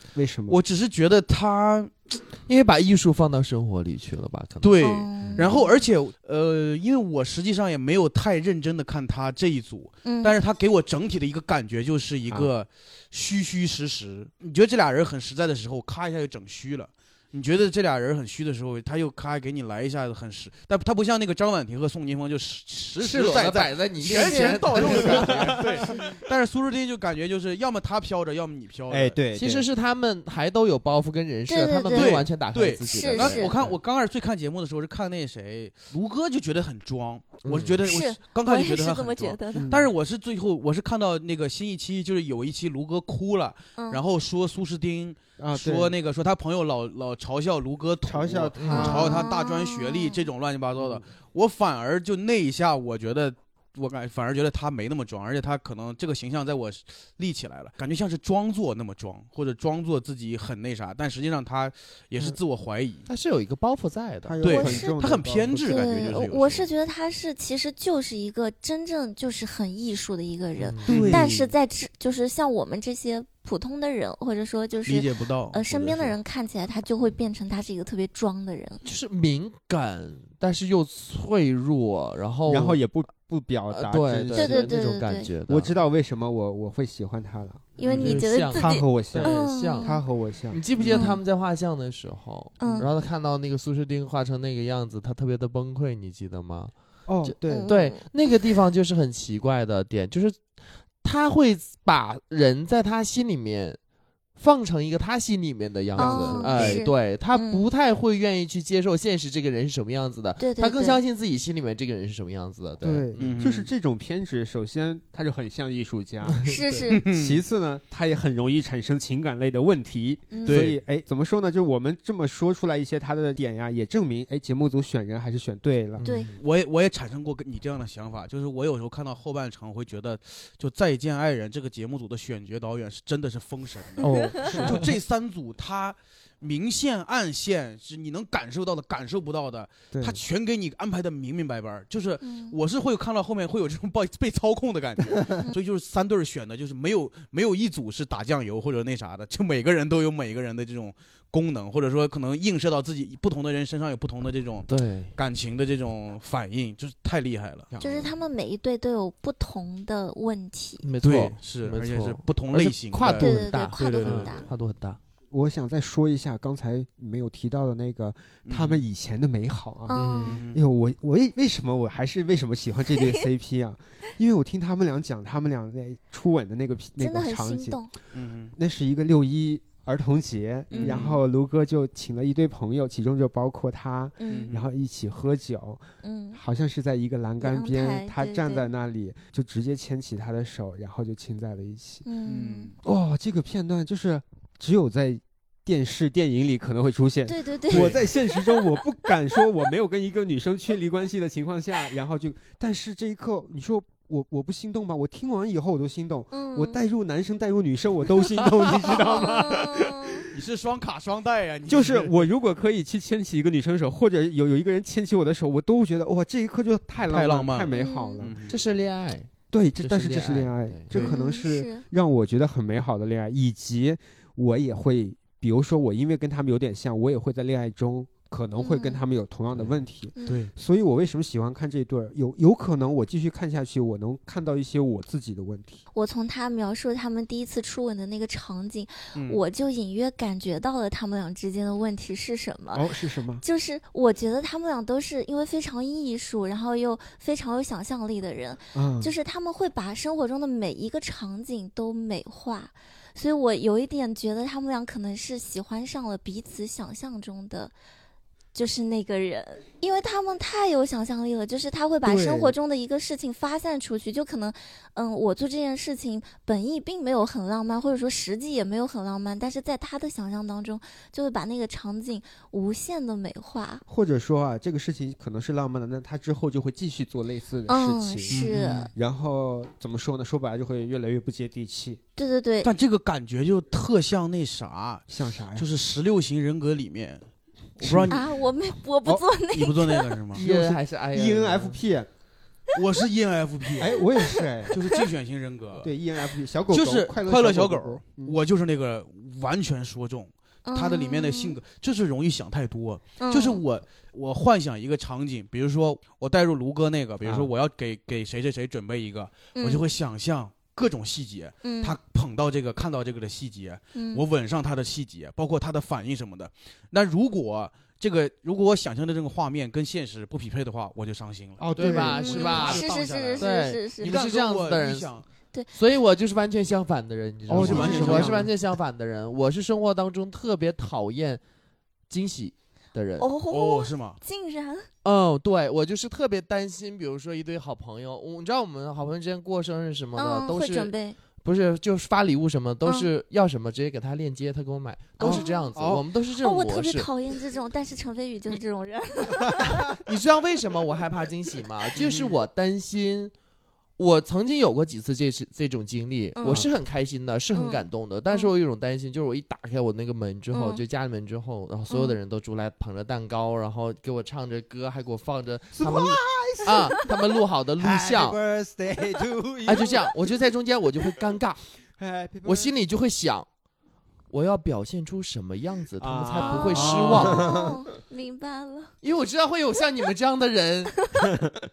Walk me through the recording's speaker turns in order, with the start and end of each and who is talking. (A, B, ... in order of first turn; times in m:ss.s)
0:00.2-0:00.6 A
0:00.5-0:02.2 B
0:02.5-0:05.5 C
0:04.6-0:29.2 B
0:04.8-0:05.8 D
0:10.0-0:10.4 D
0:23.0-0:26.0 C
0:24.1-0:26.0 A
0:28.9-0:29.7 A
0:29.3-0:33.8 C
0:31.5-0:32.2 D
0:31.9-1:03.1 B
0:32.9-0:33.5 D
0:37.4-0:37.8 C
0:37.8-0:39.7 D
0:39.6-0:39.9 A
0:43.8-0:44.0 D
0:45.4-0:45.9 A
0:48.1-0:49.3 A
0:48.6-0:49.0 C
0:48.8-0:50.2 D
0:50.8-0:51.0 A
1:03.1-1:04.4 C
1:04.2-1:06.2 A
1:04.4-1:05.0 D
1:04.4-1:06.7 B
1:05.6-1:18.8 D
1:10.6-1:11.1 C
1:10.9-1:11.5 A
1:10.9-1:11.3 B
1:14.9-1:16.1 B
1:18.8-1:22.8 C
1:22.5-1:24.8 A
1:23.7-1:25.8 C
1:24.4-1:25.3 D
1:25.5-1:31.2 A
1:27.8-1:30.0 D
1:27.8-1:36.7 C
1:30.9-1:31.2 D
1:32.6-1:32.9 D
1:32.6-1:32.9 A
1:37.1-1:37.7 A
1:37.2-1:43.8 C
1:37.5-1:38.0 D
1:44.4-1:53.4 C
1:46.0-1:46.8 A
1:46.0-1:47.7 D
1:50.4-1:51.0 D
1:52.8-1:56.4 A
1:53.2-1:53.7 B
1:56.3-1:56.9 C
1:56.5-1:57.0 D
1:56.9-1:57.4 B
1:57.1-2:06.0 A
2:00.3-2:00.7 D
2:00.4-2:00.8 B
2:06.0-2:06.4 C
2:06.4-2:38.1 B
2:14.0-2:14.9 A
2:14.0-2:14.4 D
2:19.9-2:20.2 A
2:22.2-2:22.6 D
2:34.7-2:35.1 C
2:37.8-2:40.8 D
2:40.8-2:45.0 C
2:41.0-2:44.4 B
2:43.1-2:44.5 D
2:45.3-2:57.8 A
2:48.5-2:48.8 B
2:49.9-2:50.4 D
2:49.9-2:50.4 C
2:50.3-2:50.6 B
2:57.0-2:57.9 D
2:58.1-2:58.5 B
2:58.6-3:12.0 A
3:00.7-3:01.1 D
3:00.7-3:01.2 B
3:04.2-3:04.5 D
3:04.3-3:04.7 B
3:06.0-3:06.4 D
3:07.4-3:08.7 D
3:12.0-3:12.7 D
3:12.3-3:12.8 B
3:12.8-3:30.4 A
3:17.3-3:18.8 D
3:17.7-3:18.0 B
3:26.3-3:26.8 D
3:29.1-3:30.2 D
3:30.3-3:32.3 B
3:31.7-3:38.4 A
3:37.1-3:38.6 B
3:37.7-3:38.3 D
3:38.5-3:40.9 C
3:39.5-3:55.8 A
3:40.9-3:41.8 D
3:48.6-3:49.0 D
3:49.5-3:49.8 C
3:50.3-3:50.5 B
3:56.0-4:17.7 D
3:59.2-3:59.4 B
4:02.7-4:03.4 A
4:08.7-4:09.1 A
4:18.5-4:33.8 D
4:22.0-4:22.5 A
4:33.9-4:42.0 A
4:37.7-4:38.9 D
4:38.3-4:38.9 B
4:42.2-4:42.7 D
4:42.6-4:47.2 B
4:45.1-4:45.7 A
4:47.8-4:48.2 B
4:47.8-4:48.2 A
4:48.1-4:50.2 D
4:49.5-4:50.4 B
4:50.3-4:52.1 A
4:50.4-4:51.8 C
4:52.8-4:54.0 B
4:53.8-4:54.7 A
4:54.3-4:55.0 D
4:54.7-4:55.9 B
4:55.8-4:58.4 A
4:56.7-5:23.5 B
5:00.7-5:01.6 D
5:03.2-5:03.6 D
5:07.2-5:07.5 A
5:09.6-5:09.8 D
5:11.6-5:12.0 D
5:14.0-5:14.2 D
5:21.6-5:22.4 A
5:21.8-5:22.8 C
5:22.1-5:24.1 D
5:23.4-5:25.1 C
5:24.0-5:25.2 B
5:25.7-5:31.4 C
5:27.5-5:28.5 A
5:27.5-5:28.5 B
5:32.1-5:33.3 C
5:33.2-5:34.9 D
5:33.5-5:34.2 B
5:35.0-5:47.1 C
5:40.2-5:41.2 D
5:45.2-5:45.7 D
5:45.2-5:46.1 A
5:46.4-5:50.0 D
5:50.0-5:53.3 C
5:54.0-6:08.4 C
5:56.4-5:56.7 D
5:57.5-5:58.5 D
6:00.5-6:00.8 D
6:01.9-6:02.2 D
6:05.8-6:10.4 A
6:09.7-6:11.6 C
6:12.0-6:12.8 A
6:12.4-6:13.5 C
6:14.3-6:17.5 C
6:16.0-6:17.8 A
6:16.4-6:19.0 D
6:16.7-6:17.4 B
6:19.0-6:21.0 C